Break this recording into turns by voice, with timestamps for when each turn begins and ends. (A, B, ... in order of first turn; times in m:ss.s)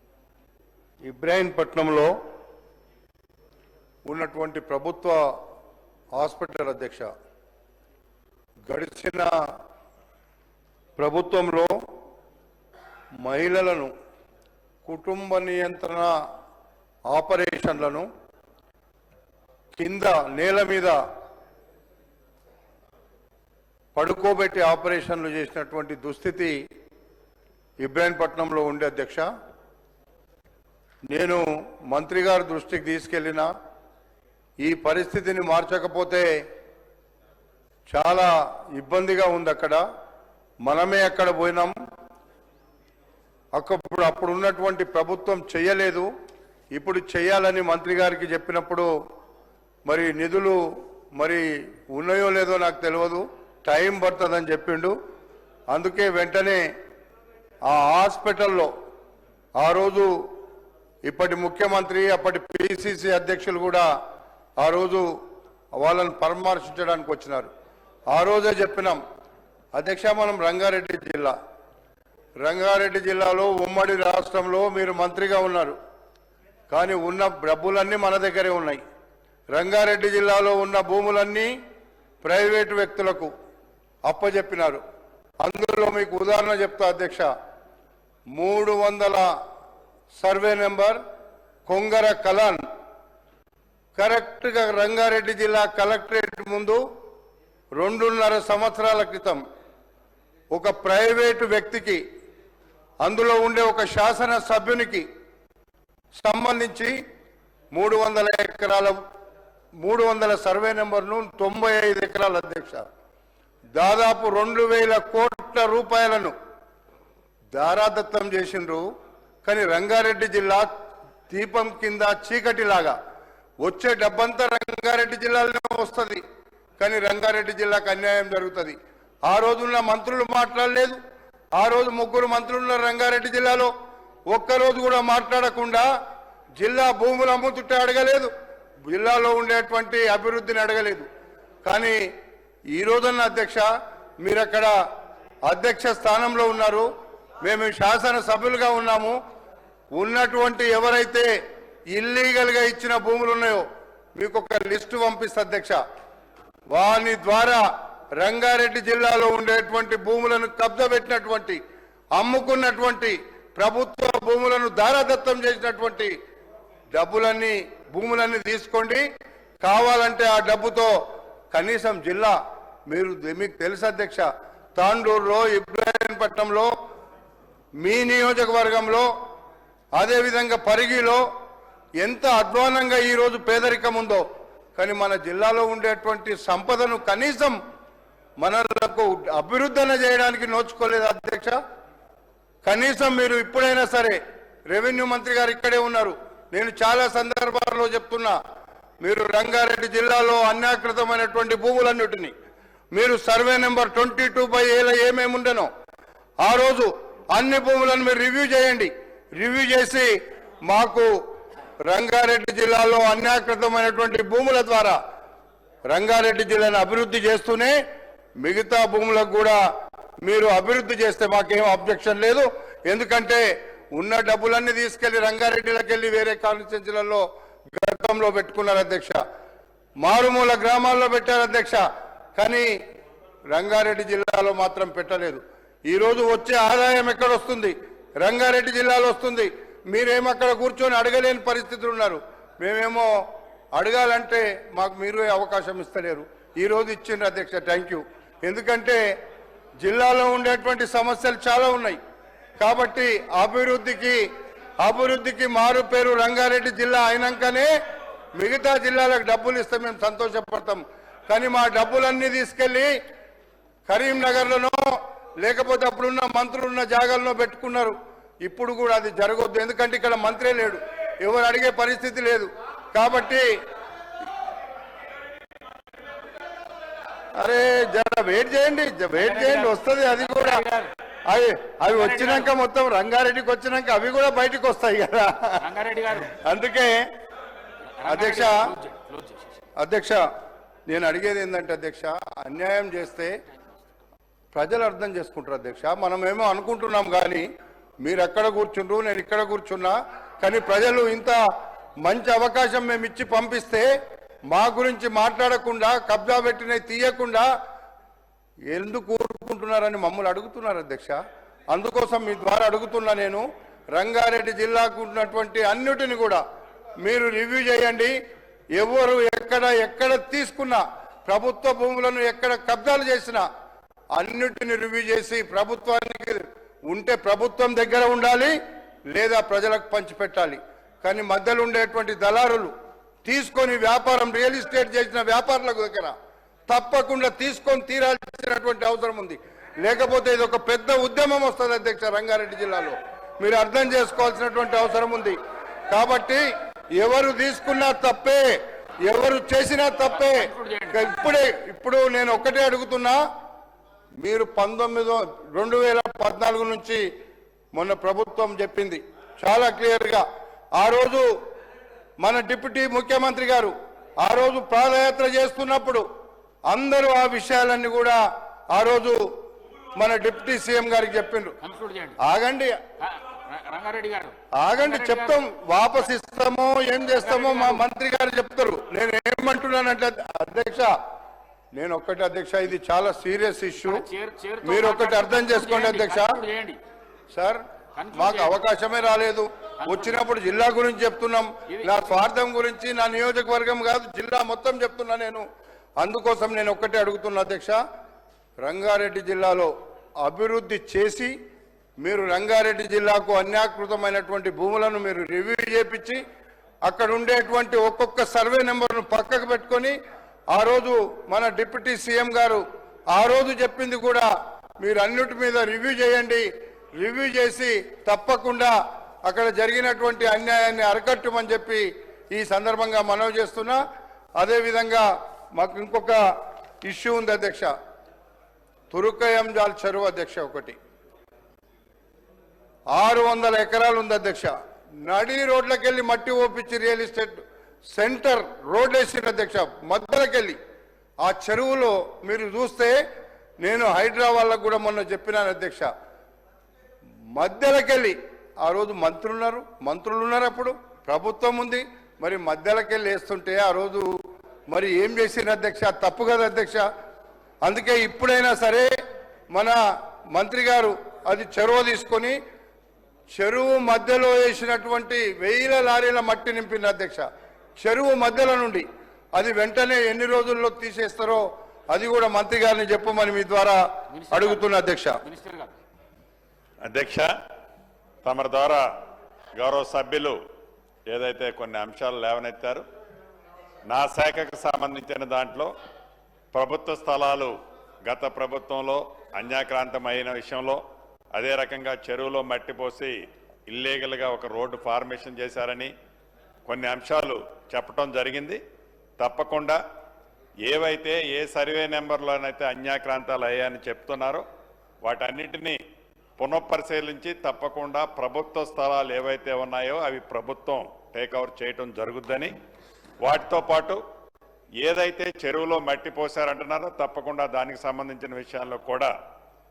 0:01.0-0:02.1 A
0:04.0-0:05.2 A
0:06.2-0:07.1 A
0:08.7-0:09.3 A
0:11.0-0:11.7 A
0:13.2-0:13.9 A
0:14.8-0:16.1 A
0:17.1-0:18.1 A
0:19.8-0:21.0 A
0:23.9-0:26.6 A
0:27.8-0:29.2 A
0:31.1-0:33.5 A
0:34.6-0:36.3 A
0:37.9-0:39.8 A
0:40.6-0:41.7 A
0:43.5-0:46.1 A
0:46.7-0:48.9 A
0:49.8-0:50.6 A
0:51.2-0:54.9 A
0:55.7-0:56.6 A
0:57.7-0:58.7 A
0:59.6-1:00.1 A
1:01.0-1:03.9 A
1:04.6-1:05.1 A
1:05.8-1:07.5 A
1:08.1-1:09.0 A
1:09.7-1:11.3 A
1:12.4-1:15.8 A
1:16.7-1:18.8 A
1:19.5-1:21.5 A
1:22.2-1:23.3 A
1:24.0-1:24.8 A
1:25.4-1:27.3 A
1:28.4-1:29.3 A
1:30.2-1:31.0 A
1:31.7-1:32.6 A
1:34.0-1:36.8 A
1:37.8-1:39.4 A
1:40.5-1:42.0 A
1:43.0-1:45.0 A
1:46.2-1:46.9 A
1:47.7-1:49.0 A
1:49.8-1:52.8 A
1:53.8-1:56.3 A
1:57.5-1:58.8 A
1:59.4-2:00.7 A
2:01.3-2:03.0 A
2:03.6-2:06.2 A
2:06.8-2:08.8 A
2:09.3-2:11.0 A
2:11.6-2:13.7 A
2:14.3-2:15.9 A
2:16.6-2:18.3 A
2:18.9-2:21.0 A
2:21.6-2:22.0 A
2:22.7-2:23.7 A
2:24.2-2:24.7 A
2:25.5-2:26.9 A
2:27.4-2:29.2 A
2:29.9-2:31.3 A
2:31.9-2:33.6 A
2:34.2-2:35.8 A
2:36.7-2:37.6 A
2:38.2-2:41.6 A
2:42.2-2:46.1 A
2:46.9-2:49.0 A
2:49.6-2:50.9 A
2:51.5-2:52.3 A
2:52.9-2:54.2 A
2:54.8-2:56.7 A
2:57.8-2:59.1 A
3:00.0-3:01.2 A
3:02.0-3:04.2 A
3:04.8-3:07.6 A
3:08.4-3:11.6 A
3:12.6-3:14.2 A
3:14.7-3:18.3 A
3:19.0-3:22.3 A
3:22.9-3:25.7 A
3:26.4-3:30.1 A
3:30.7-3:31.1 A
3:31.8-3:35.0 A
3:35.9-3:37.8 A
3:38.4-3:39.6 A
3:40.2-3:49.2 A
3:50.0-3:51.8 A
3:52.4-3:52.7 A
3:53.5-4:03.1 A
4:03.8-4:09.0 A
4:09.8-4:12.0 A
4:12.6-4:14.2 A
4:14.8-4:17.7 A
4:18.4-4:22.9 A
4:23.9-4:33.5 A
4:37.4-4:40.6 A
4:39.1-4:40.9 B
4:41.3-4:45.6 A
4:41.9-4:42.5 B
4:45.6-4:46.4 B
4:46.2-4:47.0 A
4:48.0-4:49.6 B
4:48.1-4:48.7 A
4:49.8-4:50.2 A
4:50.9-4:53.3 A
4:54.5-4:57.4 A
4:58.0-5:01.4 A
5:02.0-5:03.8 A
5:04.5-5:07.5 A
5:08.7-5:11.2 A
5:11.7-5:13.4 A
5:14.0-5:16.4 A
5:17.0-5:18.1 A
5:18.8-5:23.4 A
5:24.2-5:28.6 A
5:29.1-5:32.7 A
5:33.2-5:36.1 A
5:36.7-5:45.4 A
5:45.9-5:46.4 A
5:47.0-5:48.4 A
5:49.0-5:53.2 A
5:50.1-5:51.1 B
5:54.2-5:57.0 A
5:57.7-6:00.2 A
6:00.8-6:01.2 A
6:02.2-6:06.0 A
6:06.7-6:08.2 A
6:08.7-6:09.2 A
6:10.0-6:11.6 A
6:11.6-6:12.2 B
6:12.2-6:12.8 A
6:13.0-6:15.4 B
6:14.6-6:20.9 A
6:17.2-6:17.8 B
6:21.7-6:24.1 A
6:23.8-6:26.8 B
6:24.6-6:26.4 A
6:27.3-6:27.6 A
6:28.0-6:28.6 B
6:28.1-6:35.4 A
6:29.8-6:30.2 B
6:31.7-6:32.0 B
6:36.0-6:37.8 A
6:38.6-6:39.7 A
6:40.2-6:41.3 A
6:42.0-6:46.2 A
6:46.8-6:49.9 A
6:50.5-6:54.3 A
6:54.8-6:56.4 A
6:57.0-6:58.7 A
6:59.2-7:03.8 A
7:04.4-7:05.0 A
7:05.6-7:06.2 A
7:06.8-7:07.7 A
7:08.9-7:10.8 A
7:12.9-7:14.5 A
7:15.0-7:17.4 A
7:17.9-7:20.6 A
7:21.2-7:23.0 A
7:23.6-7:25.9 A
7:27.4-7:34.1 A
7:34.7-7:36.8 A
7:37.6-7:38.9 A
7:40.3-7:42.4 A
7:43.4-7:47.2 A
7:47.8-7:48.8 A
7:49.4-7:53.8 A
7:54.1-7:55.8 B
7:54.3-7:55.2 A
7:56.8-7:57.3 C
7:58.2-7:58.8 C
7:59.6-8:00.4 C
8:01.1-8:02.8 C
8:03.9-8:05.7 C
8:06.5-8:07.5 C
8:08.1-8:10.8 C
8:11.3-8:13.2 C
8:13.7-8:15.9 C
8:16.6-8:18.6 C
8:19.2-8:19.8 C
8:20.6-8:24.4 C
8:25.0-8:25.8 C
8:26.4-8:32.5 C
8:33.2-8:34.0 C
8:34.8-8:39.1 C